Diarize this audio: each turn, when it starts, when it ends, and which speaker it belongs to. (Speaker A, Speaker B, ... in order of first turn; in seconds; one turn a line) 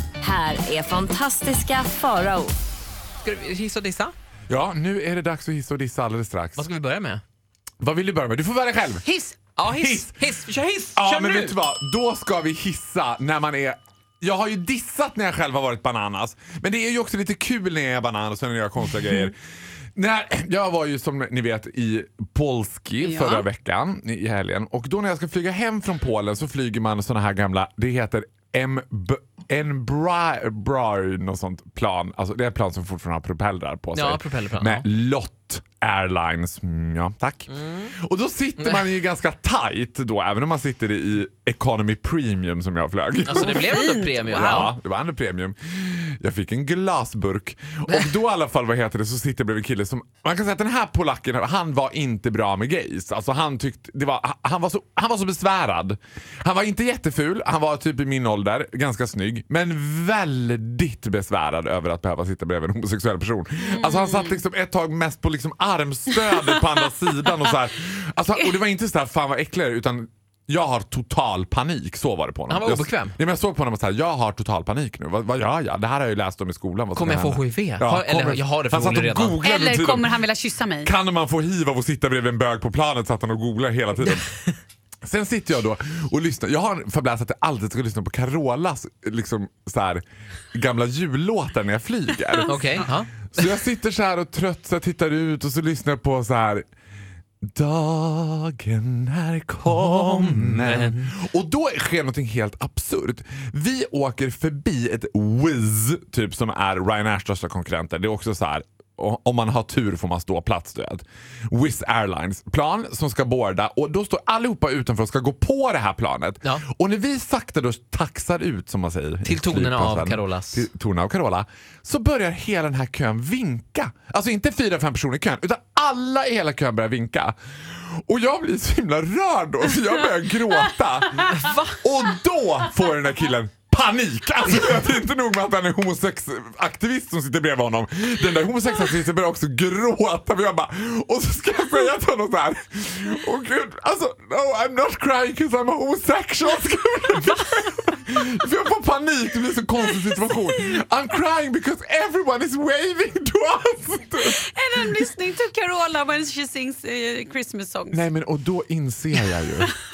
Speaker A: 0.2-2.5
Speaker B: 3.2-4.1
Speaker C: 4.5-6.7
Speaker B: 6.6-7.2
Speaker C: 7.8-9.1
Speaker D: 9.1-9.4
Speaker B: 9.6-11.6
Speaker C: 9.7-10.2
Speaker C: 10.9-19.4
Speaker C: 20.0-80.2
Speaker D: 23.0-23.5
Speaker B: 33.9-34.9
Speaker B: 37.5-37.9
Speaker B: 43.3-44.7
Speaker D: 43.5-44.6
Speaker B: 72.5-73.2
Speaker B: 76.9-79.4
Speaker D: 79.4-80.9
Speaker C: 80.8-84.3
Speaker C: 85.0-90.0
Speaker C: 90.5-96.6
Speaker B: 92.5-93.3
Speaker C: 97.5-127.3
Speaker B: 99.8-101.1
Speaker B: 119.2-120.6
Speaker C: 127.9-154.4
Speaker B: 131.2-131.8
Speaker D: 154.2-158.0
Speaker C: 157.9-159.8